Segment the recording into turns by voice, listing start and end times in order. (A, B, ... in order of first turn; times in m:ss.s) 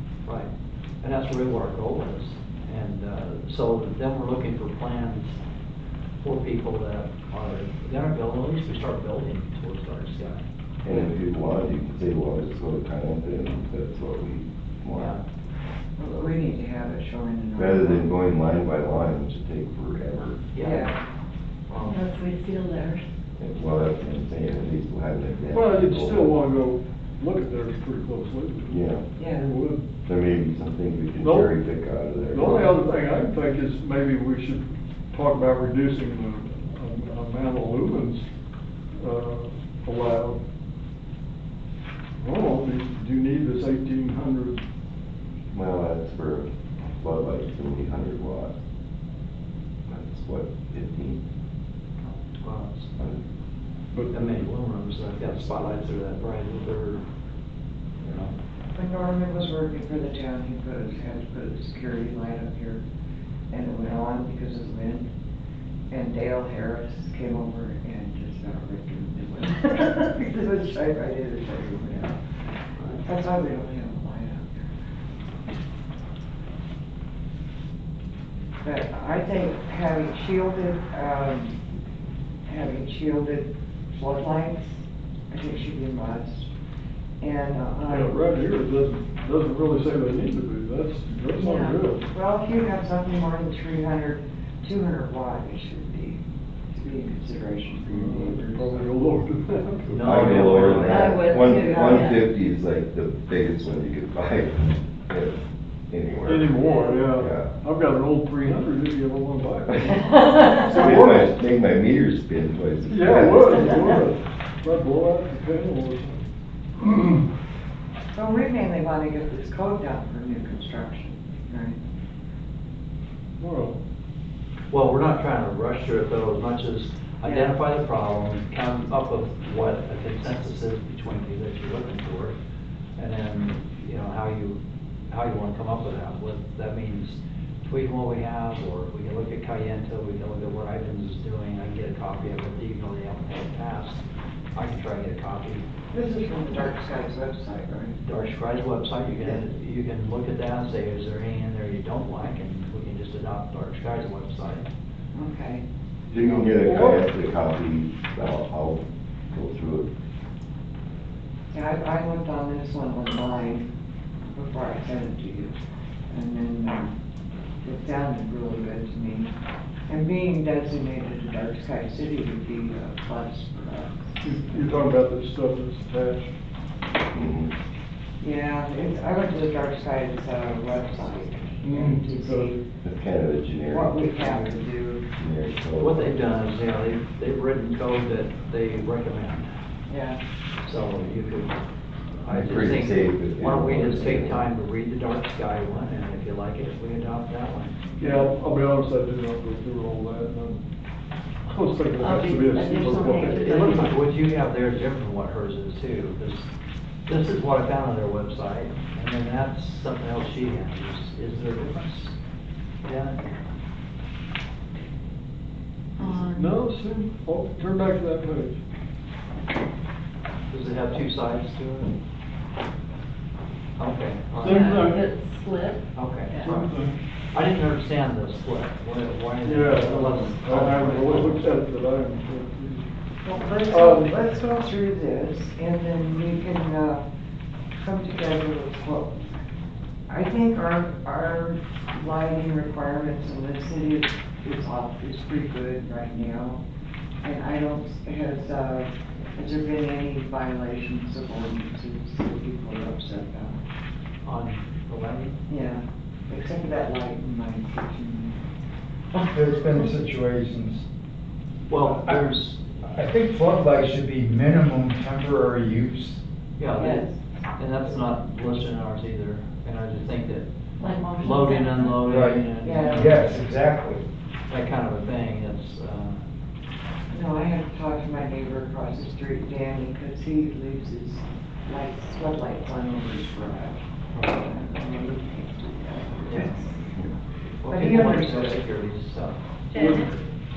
0:01.0-0:05.4 A
0:06.2-0:10.5 A
0:10.8-0:15.1 B
0:14.9-0:15.2 A
0:16.0-0:18.1 C
0:17.6-0:20.4 B
0:20.5-0:20.9 A
0:20.6-0:21.0 C
0:21.7-0:22.0 A
0:21.9-0:23.0 D
0:23.4-0:26.4 B
0:25.5-0:29.8 E
0:28.7-0:29.0 B
0:29.2-0:29.5 C
0:30.0-0:32.7 B
0:31.2-0:31.5 E
0:32.3-0:38.2 E
0:39.0-0:40.4 E
0:42.2-0:44.6 E
0:45.5-0:48.6 B
0:49.9-0:51.2 B
0:52.0-0:52.9 A
0:53.9-0:54.5 E
0:54.1-0:57.0 A
0:58.0-0:58.3 A
0:58.7-1:02.8 C
1:03.5-1:05.1 C
1:05.9-1:12.2 C
1:12.9-1:14.7 C
1:18.6-1:21.6 C
1:22.5-1:26.5 C
1:27.2-1:28.2 C
1:27.9-1:32.0 E
1:31.4-1:31.8 D
1:32.0-1:36.2 C
1:36.7-1:38.8 C
1:37.8-1:40.7 E
1:39.9-1:41.1 A
1:40.0-1:45.4 B
1:40.8-1:42.2 D
1:45.9-1:47.5 B
1:46.2-1:51.3 E
1:46.6-1:47.0 D
1:50.1-1:50.5 D
1:50.7-1:54.0 B
1:52.8-1:56.2 E
1:56.8-1:57.2 E
1:58.1-2:01.8 C
2:03.4-2:03.8 E
2:04.7-2:12.4 A
2:07.2-2:07.5 C
2:13.0-2:14.6 A
2:15.1-2:24.0 A
2:24.5-2:25.6 A
2:25.9-2:28.0 C
2:28.0-2:34.7 A
2:35.1-2:35.6 C
2:36.1-2:39.9 B
2:36.2-2:36.5 C
2:36.6-2:37.0 E
2:41.5-2:43.7 C
2:44.3-2:45.5 C
2:46.1-2:46.9 C
2:47.6-2:49.3 C
2:49.9-2:54.5 C
2:54.2-2:56.3 E
2:57.1-2:57.5 B
2:58.2-3:02.6 C
3:01.6-3:02.6 E
3:02.8-3:04.5 B
3:03.7-3:05.1 C
3:05.2-3:06.1 B
3:05.8-3:09.5 A
3:09.9-3:10.2 C
3:10.6-3:11.6 A
3:12.2-3:17.8 A
3:12.3-3:14.5 B
3:18.0-3:20.6 E
3:21.4-3:23.9 E
3:22.0-3:23.9 D
3:23.4-3:26.5 A
3:27.1-3:32.1 A
3:32.8-3:33.2 A
3:36.0-3:36.6 D
3:36.0-3:38.6 E
3:40.5-3:41.9 A
3:43.8-3:44.9 A
3:44.4-3:45.1 E
3:44.4-3:46.5 D
3:45.9-3:46.7 A
3:46.4-3:47.0 E
3:47.3-3:51.4 A
3:49.4-3:52.9 E
3:53.2-3:57.0 C
3:53.7-3:54.1 E
3:57.8-3:59.3 C
4:00.1-4:06.6 C
4:07.2-4:13.6 C
4:14.2-4:15.4 A
4:15.5-4:18.4 C
4:19.1-4:19.9 C
4:19.3-4:20.8 F
4:21.7-4:22.6 A
4:21.7-4:26.2 F
4:26.6-4:30.5 A
4:26.7-4:27.2 C
4:30.8-4:32.1 D
4:31.2-4:33.3 A
4:32.0-4:34.0 F
4:32.6-4:33.2 C
4:34.5-4:36.2 A
4:37.1-4:47.0 C
4:44.1-4:44.4 A
4:46.3-4:46.5 A
4:47.6-4:50.0 A
4:47.7-4:48.6 C
4:49.7-4:50.1 D
4:49.8-4:50.1 E